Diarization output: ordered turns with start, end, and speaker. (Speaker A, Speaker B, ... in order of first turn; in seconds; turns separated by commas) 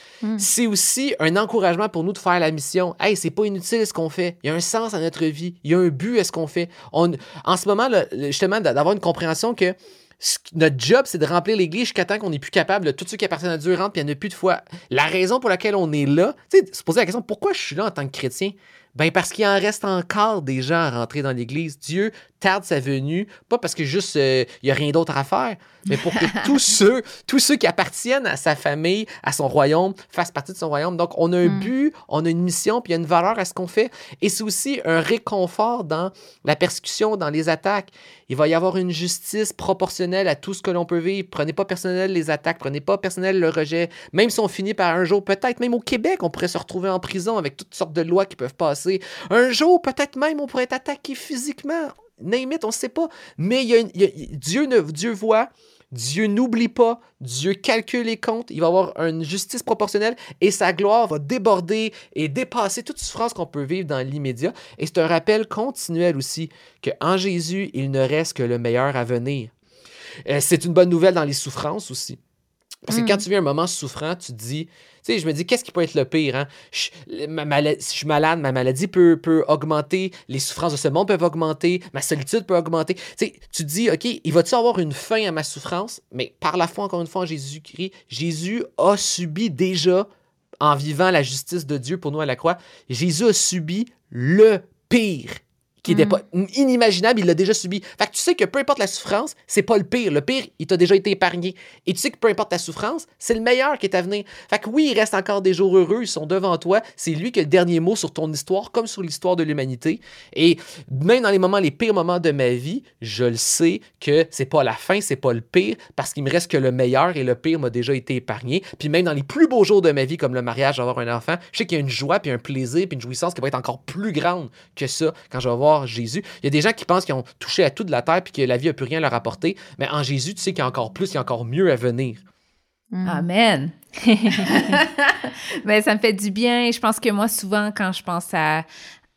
Speaker A: 0.4-69.5, Speaker B: 26.2-26.5, Speaker C: 31.4-31.7, Speaker A: 70.2-72.2, Speaker A: 72.8-90.0, Speaker C: 72.9-73.2, Speaker A: 90.6-132.2, Speaker C: 95.9-96.2, Speaker C: 132.9-133.3, Speaker B: 133.0-133.7, Speaker C: 134.0-134.8, Speaker B: 134.3-138.6